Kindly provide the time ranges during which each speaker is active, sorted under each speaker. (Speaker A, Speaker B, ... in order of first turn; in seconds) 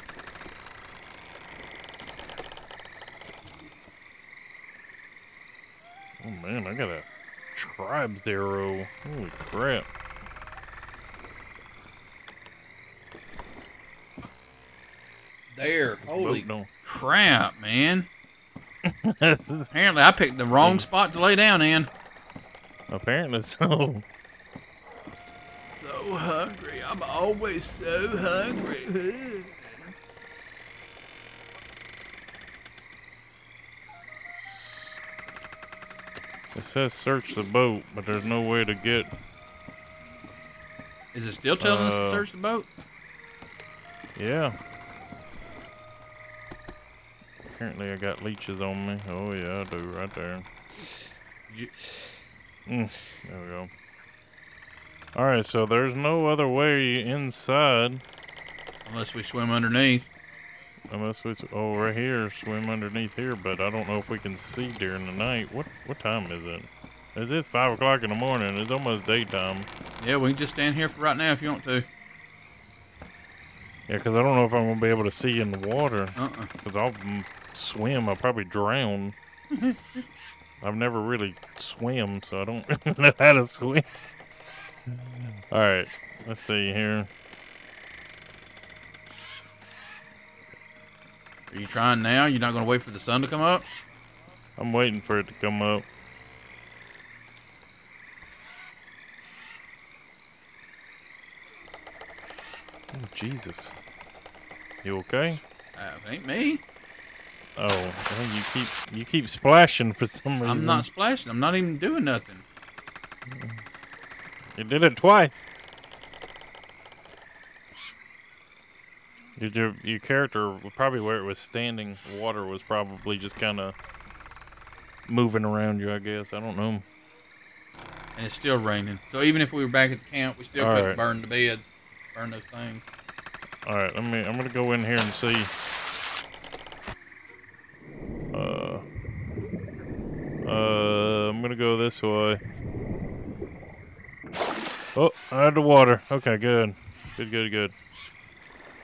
Speaker A: 6.2-9.9, 16.0-16.7, 18.9-19.7, 20.6-20.9, 22.9-24.1, 34.4-35.0, 36.5-39.1, 41.6-42.2, 44.2-44.6, 47.5-50.5, 52.7-53.7, 55.1-58.0, 60.9-69.7, 73.9-79.2, 80.6-83.9, 84.9-87.1, 94.6-95.9, 102.9-103.7, 104.8-105.4, 107.6-110.9, 113.3-113.6, 114.5-115.5, 119.4-123.8, 125.1-126.8, 130.6-131.0, 133.7-135.5, 138.3-138.8, 140.4-142.4, 144.9-147.7
Speaker B: 15.5-18.1, 19.7-21.9, 25.7-29.9, 41.1-42.7, 58.9-60.1, 70.0-71.9, 76.2-76.5, 79.5-80.0, 91.5-93.7, 105.8-106.6, 110.4-112.4, 128.2-132.8